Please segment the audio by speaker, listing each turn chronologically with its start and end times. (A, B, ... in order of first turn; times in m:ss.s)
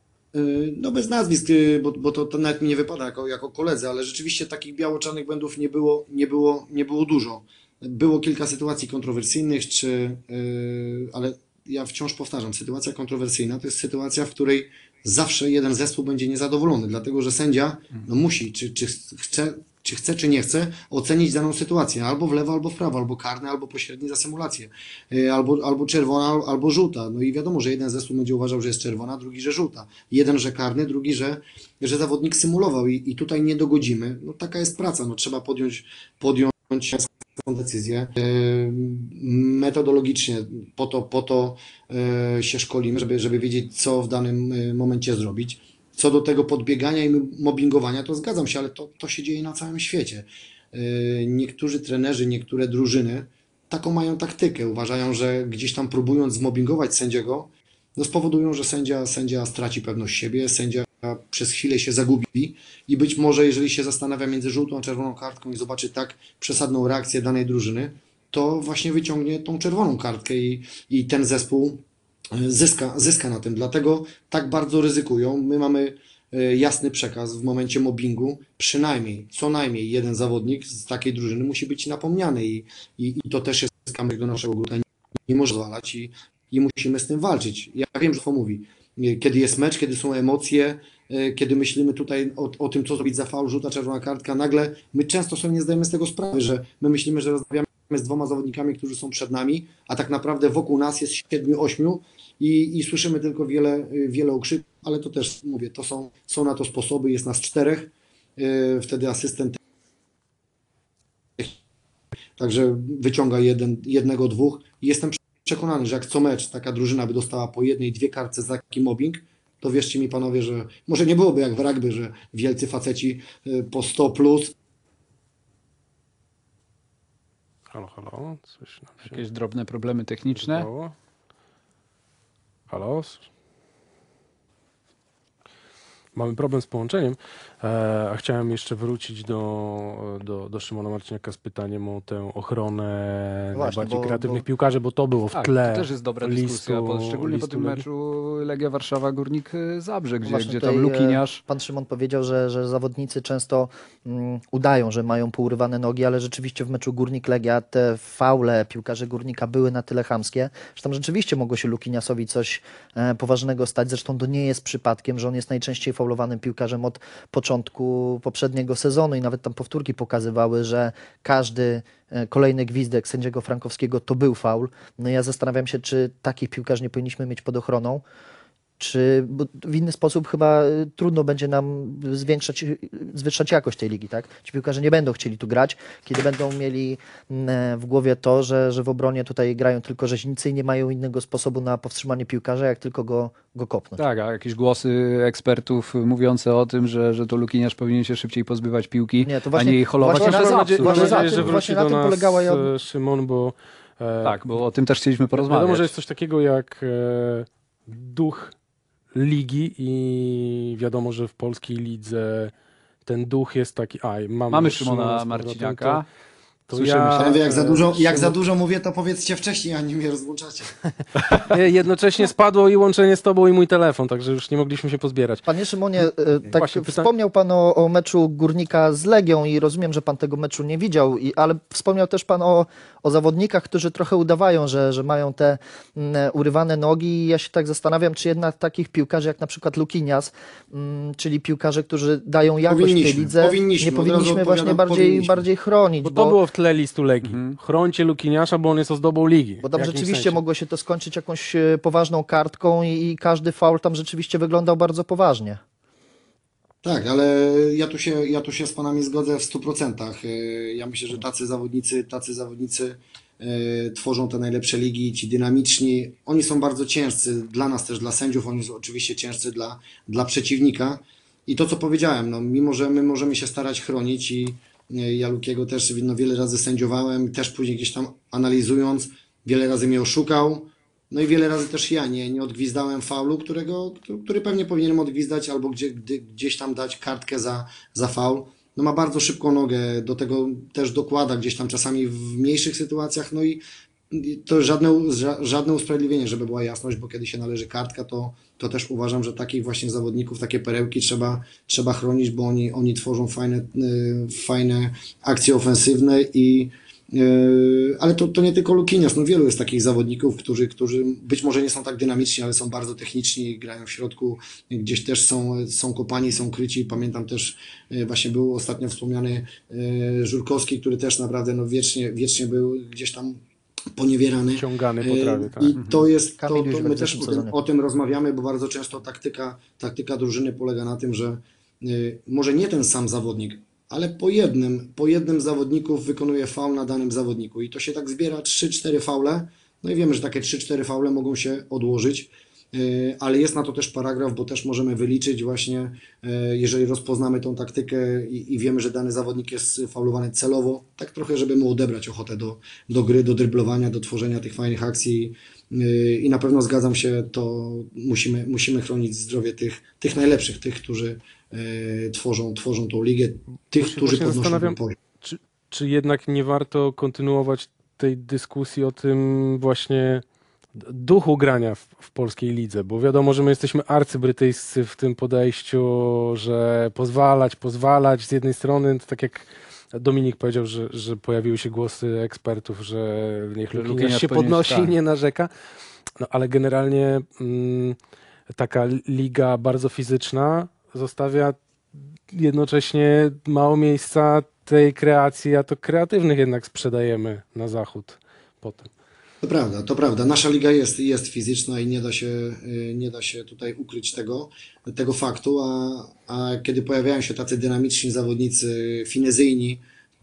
0:00.3-1:49.6 A
1:52.4-2:04.5 A
2:07.7-2:09.2 B
2:09.0-2:10.7 C
2:10.3-2:10.9 B
2:12.7-2:13.2 B
2:16.1-2:27.8 B
2:23.5-2:24.4 D
2:25.3-2:31.4 C
2:30.2-2:58.0 D
2:58.8-3:14.0 D
3:14.0-3:21.5 C
3:19.2-3:22.7 D
3:20.1-3:24.4 B
3:24.2-3:25.9 C
3:25.4-3:28.5 B
3:29.1-3:32.5 B
3:33.0-3:36.0 B
3:34.5-3:36.0 C
3:36.7-3:38.3 B
3:36.7-3:37.4 C
3:37.1-3:40.8 A
3:41.3-3:45.4 B
3:45.4-4:06.4 D
3:46.0-3:47.1 B
4:02.7-4:05.4 A
4:06.0-4:10.4 B
4:07.2-4:07.6 C
4:09.6-4:15.6 D
4:16.8-5:23.4 A
5:23.9-6:05.0 A
5:24.5-5:25.8 B
5:26.4-5:27.5 D
6:03.8-6:10.2 B
6:10.8-6:25.5 B
6:23.7-6:24.9 C
6:26.2-6:28.0 B
6:28.5-6:31.6 B
6:32.3-6:38.9 B
6:39.4-6:49.8 A